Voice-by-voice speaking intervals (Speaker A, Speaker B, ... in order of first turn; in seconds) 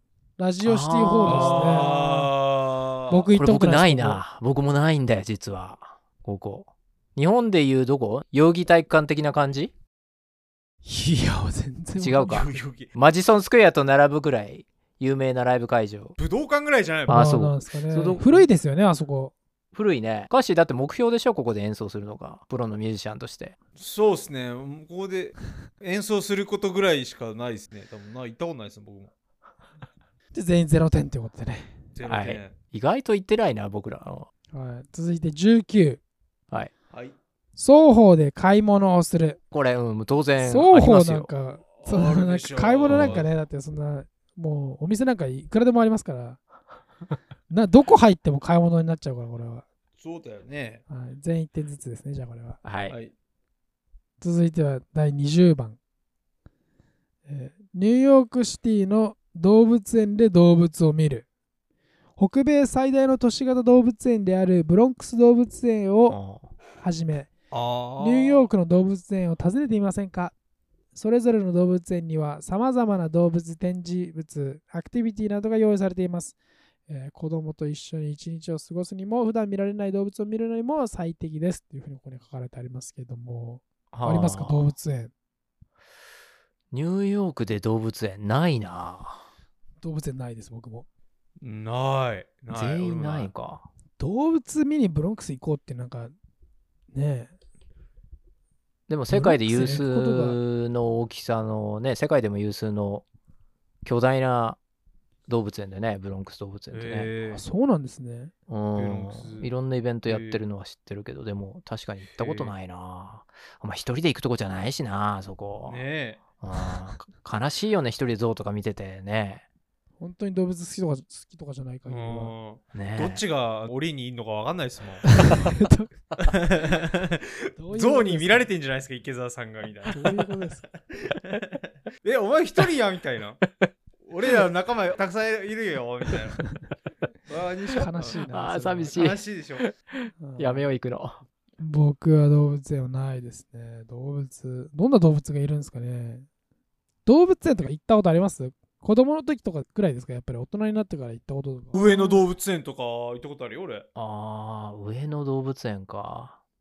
Speaker A: 0.4-2.3, 3.1-4.2, 10.8-12.6, 17.1-19.4, 30.3-31.8, 34.5-36.0, 37.6-39.4, 40.4-46.4, 47.5-49.7, 50.9-52.6, 54.2-55.8, 57.3-61.3, 62.2-66.2, 66.8-67.3, 68.0-70.3, 71.0-76.4, 76.9-85.1, 89.8-90.9, 94.0-96.2, 96.9-97.3, 99.1-100.4, 107.3-108.3, 120.0-122.3, 125.0-125.9, 127.6-128.5, 129.9-130.7, 137.8-139.1, 140.2-140.7, 141.6-146.3, 147.1-152.2
Speaker B: 0.6-1.9, 3.3-9.7, 12.0-16.2, 17.1-18.5, 19.7-23.6, 32.1-34.3, 39.5-41.3, 42.9-43.2, 52.6-53.0, 66.1-66.5, 83.9-84.7, 86.7-89.2, 92.5-93.7, 98.9-103.1, 103.8-104.6, 105.3-107.1, 108.5-115.8, 116.4-119.4, 122.7-123.2, 133.4-133.7, 138.3-141.2, 154.0-156.4
Speaker C: 1.2-3.3, 12.2-12.9, 16.2-17.2, 23.8-29.1, 32.0-32.5, 41.8-43.3, 50.0-50.8, 67.5-68.5, 91.4-93.3, 106.7-107.4, 108.8-109.5, 110.1-110.4, 112.2-112.5, 115.7-116.2, 121.9-125.1, 126.2-130.3, 130.9-133.4, 134.0-136.4, 137.3-138.3, 138.9-139.7, 151.7-153.9